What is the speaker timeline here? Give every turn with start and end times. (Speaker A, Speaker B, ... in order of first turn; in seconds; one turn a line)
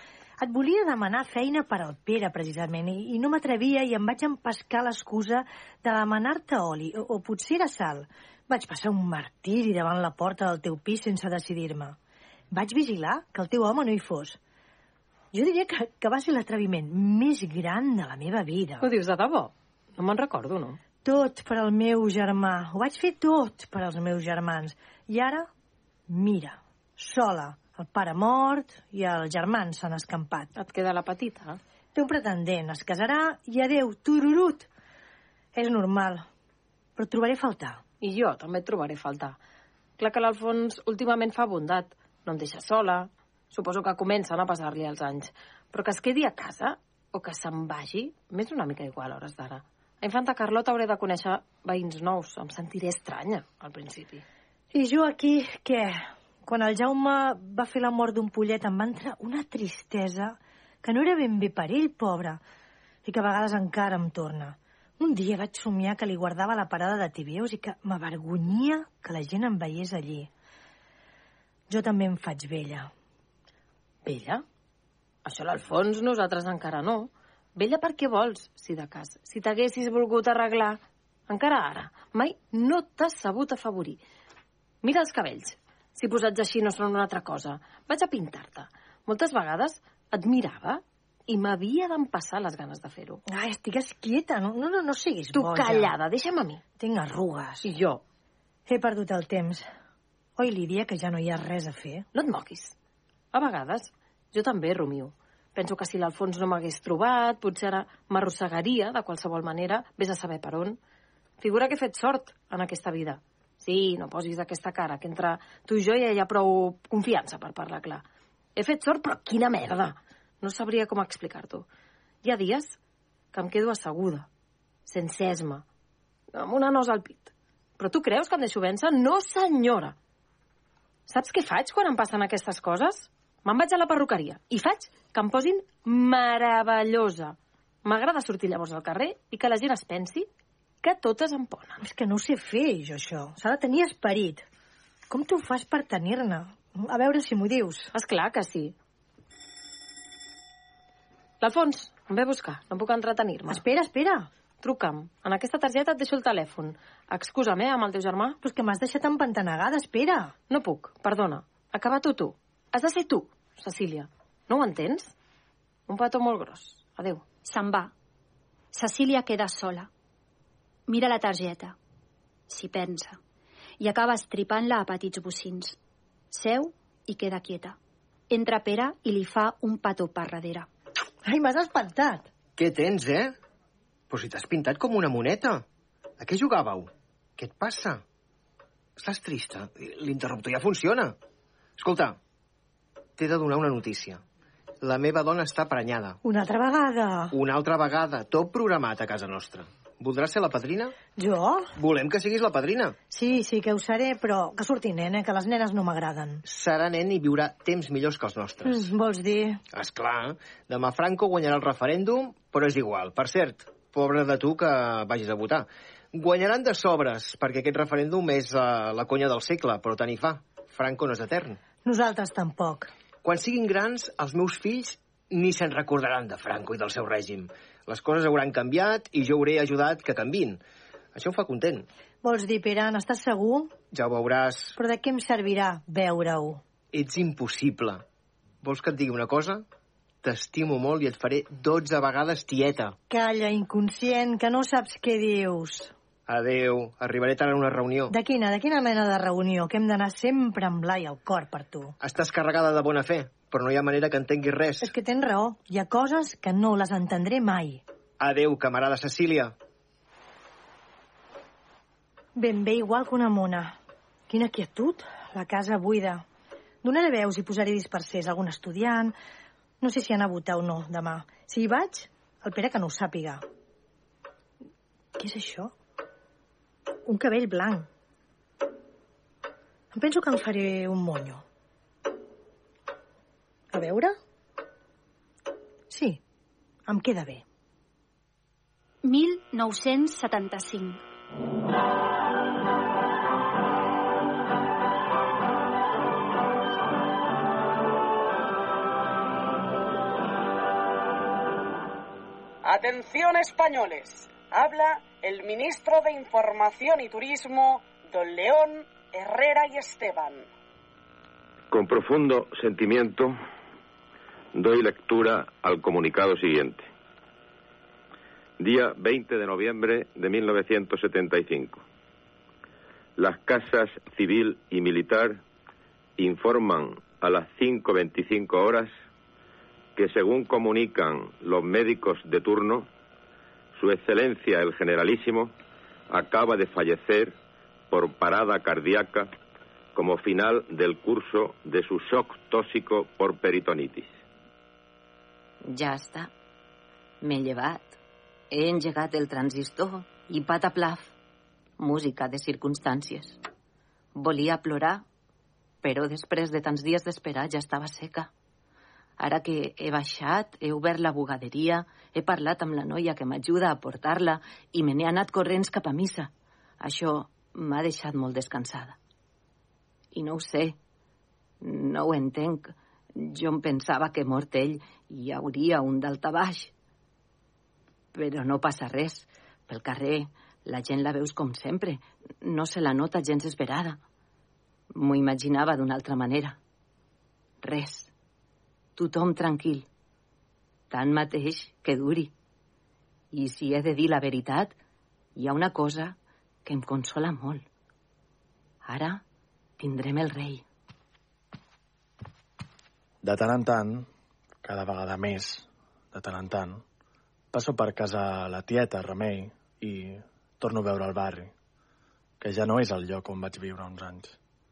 Speaker A: 0.4-11.9
Speaker A: 12.5-14.4
Speaker A: 15.3-18.9
Speaker B: 18.8-20.8
Speaker A: 21.0-25.5
Speaker A: 26.1-30.5
Speaker B: 30.6-31.6
Speaker A: 31.9-34.7
Speaker A: 35.5-36.2
Speaker A: 37.0-37.8
Speaker B: 38.0-39.4
Speaker B: 40.0-54.2
Speaker A: 54.7-62.4
Speaker A: 63.0-70.3
Speaker A: 71.7-72.9
Speaker B: 74.0-74.4
Speaker B: 75.2-84.0
Speaker B: 84.8-93.2
Speaker A: 93.3-95.9
Speaker B: 95.3-96.6
Speaker A: 96.8-97.7
Speaker B: 97.6-98.0
Speaker A: 98.7-99.7
Speaker A: 100.4-102.0
Speaker B: 102.1-102.7
Speaker B: 103.3-110.8
Speaker B: 111.4-118.0
Speaker B: 118.5-121.7
Speaker B: 122.2-122.8
Speaker B: 123.3-124.3
Speaker B: 124.8-125.6
Speaker B: 126.3-129.9
Speaker B: 131.1-140.3
Speaker B: 140.8-141.8
Speaker A: 141.8-144.4
Speaker A: 145.1-147.9
Speaker B: 147.9-148.7
Speaker B: 151.4-153.6
Speaker A: 153.5-154.3
Speaker B: 154.6-158.4
Speaker A: 158.4-160.3
Speaker B: 160.5-165.1
Speaker B: 165.9-167.2
Speaker C: 167.4-167.9
Speaker C: 168.7-169.9
Speaker C: 170.9-171.8
Speaker C: 172.5-173.2
Speaker C: 173.8-175.8
Speaker C: 176.3-177.8
Speaker C: 178.3-180.7
Speaker A: 181.2-182.3
Speaker D: 182.6-183.3
Speaker D: 184.1-185.6
Speaker D: 186.2-188.0
Speaker D: 189.0-191.1
Speaker D: 191.8-192.2
Speaker D: 193.2-194.2
Speaker D: 194.8-196.2
Speaker A: 196.2-197.3
Speaker D: 197.3-200.9
Speaker A: 201.1-201.7
Speaker D: 201.8-202.9
Speaker A: 203.1-206.4
Speaker D: 206.4-208.9
Speaker A: 208.6-209.6
Speaker D: 209.7-221.6
Speaker A: 221.8-222.9
Speaker D: 223.2-230.6
Speaker D: 231.1-231.8
Speaker A: 232.2-233.7
Speaker D: 233.9-234.8
Speaker A: 234.8-236.6
Speaker D: 236.9-238.0
Speaker D: 238.6-239.6
Speaker D: 240.2-242.9
Speaker A: 243.1-245.9
Speaker D: 246.3-248.1
Speaker A: 248.1-251.9
Speaker D: 252.0-254.9
Speaker A: 254.8-257.8
Speaker D: 258.2-259.5
Speaker A: 262.3-263.8
Speaker A: 264.3-266.2
Speaker A: 266.8-269.1
Speaker A: 269.8-273.4
Speaker A: 275.2-275.7
Speaker A: 277.1-277.9
Speaker A: 279.9-281.4
Speaker A: 283.7-284.1
Speaker A: 285.9-286.2
Speaker A: 286.9-287.4
Speaker C: 289.0-291.0
Speaker E: 302.6-310.5
Speaker F: 311.7-313.4
Speaker F: 314.5-316.9
Speaker F: 318.6-321.8
Speaker F: 323.2-325.4
Speaker F: 326.2-328.9
Speaker F: 329.9-332.9
Speaker F: 333.8-335.5
Speaker F: 336.1-337.4
Speaker F: 337.9-339.3
Speaker F: 339.9-344.2
Speaker G: 345.6-346.3
Speaker G: 347.2-348.0
Speaker G: 348.5-351.1
Speaker G: 351.8-353.4
Speaker G: 354.1-355.0
Speaker G: 355.8-358.3
Speaker G: 359.2-369.0
Speaker G: 370.1-370.8
Speaker G: 371.6-376.7
Speaker G: 378.1-384.0
Speaker G: 384.9-386.6
Speaker G: 387.6-388.1
Speaker G: 389.0-389.9
Speaker G: 390.9-392.3
Speaker G: 393.3-394.7
Speaker G: 395.4-397.6
Speaker G: 398.8-399.2
Speaker G: 399.8-400.6
Speaker H: 403.2-404.1
Speaker H: 404.6-406.8
Speaker H: 407.5-411.5
Speaker H: 412.4-414.4